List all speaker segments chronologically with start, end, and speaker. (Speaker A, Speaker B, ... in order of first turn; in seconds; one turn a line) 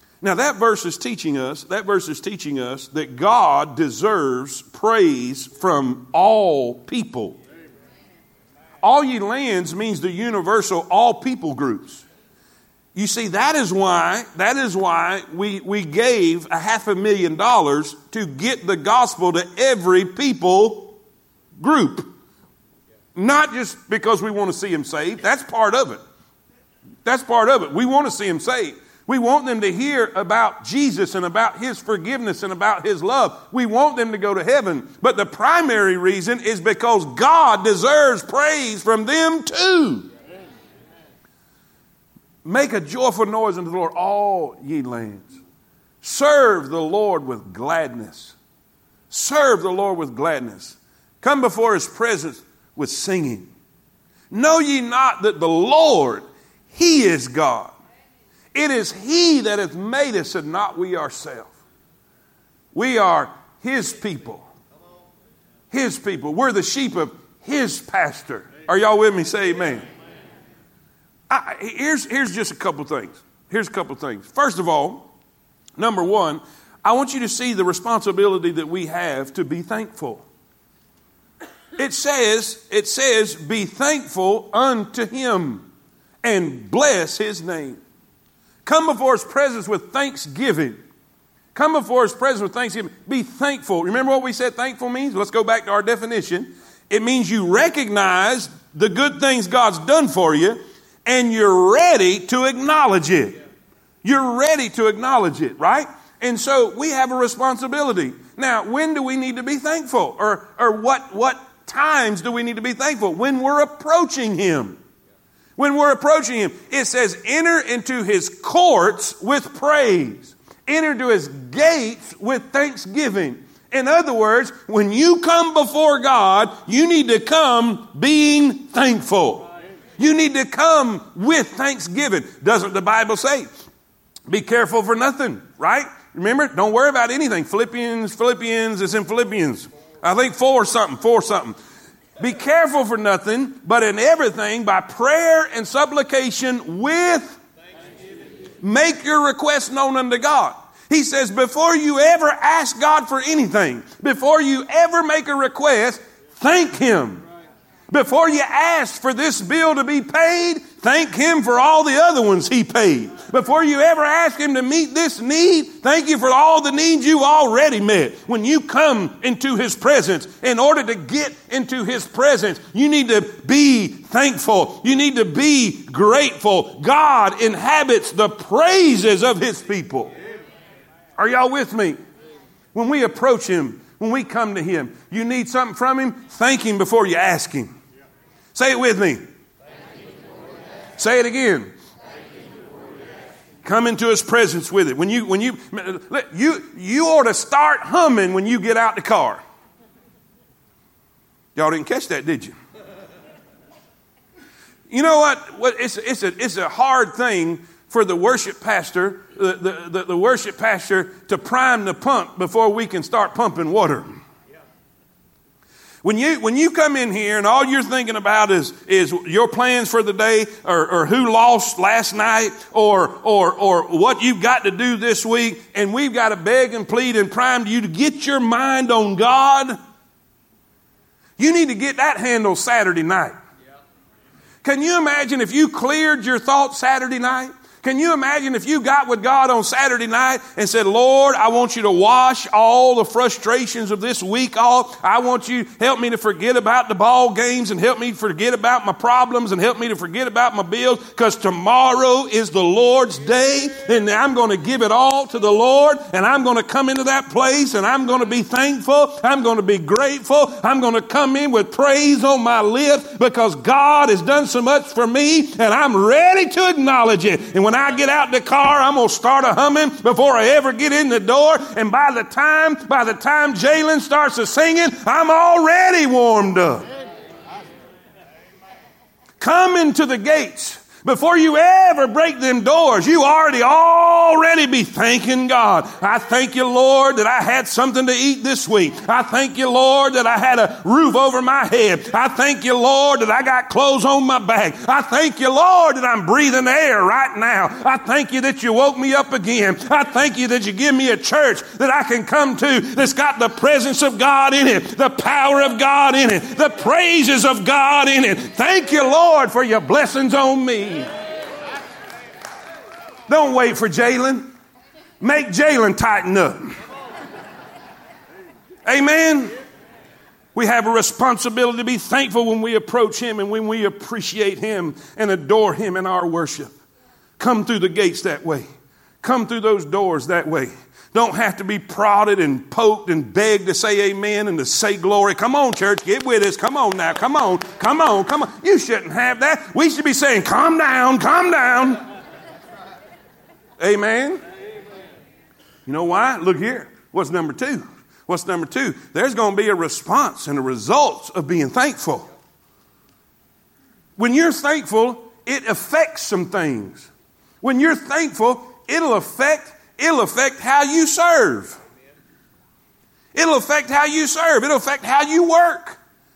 Speaker A: 0.2-7.4
Speaker A: 8.8-12.0
Speaker A: 12.9-21.0
Speaker A: 21.6-22.1
Speaker A: 23.1-26.0
Speaker A: 27.1-40.1
Speaker A: 42.4-45.4
Speaker A: 46.0-48.4
Speaker A: 49.1-53.5
Speaker A: 54.3-57.7
Speaker A: 58.5-61.6
Speaker A: 62.7-64.5
Speaker A: 65.7-69.9
Speaker A: 71.3-75.1
Speaker A: 75.8-80.2
Speaker A: 81.8-85.7
Speaker A: 86.2-87.8
Speaker A: 88.7-90.8
Speaker A: 91.5-103.4
Speaker A: 104.0-114.8
Speaker A: 115.6-133.5
Speaker A: 134.3-141.6
Speaker A: 142.2-147.4
Speaker A: 148.6-157.2
Speaker A: 157.9-180.1
Speaker A: 181.2-182.0
Speaker A: 182.7-187.7
Speaker A: 188.5-189.2
Speaker A: 191.0-191.7
Speaker A: 193.6-199.4
Speaker A: 201.6-202.6
Speaker A: 204.9-214.2
Speaker A: 216.0-229.8
Speaker A: 231.4-233.4
Speaker A: 234.6-276.9
Speaker A: 279.4-311.1
Speaker A: 313.3-314.5
Speaker A: 315.2-316.8
Speaker A: 318.9-319.5
Speaker A: 320.6-326.7
Speaker A: 327.4-328.7
Speaker A: 329.2-342.0
Speaker A: 343.8-344.4
Speaker A: 345.9-352.3
Speaker A: 354.2-357.1
Speaker A: 357.6-361.8
Speaker A: 363.3-366.0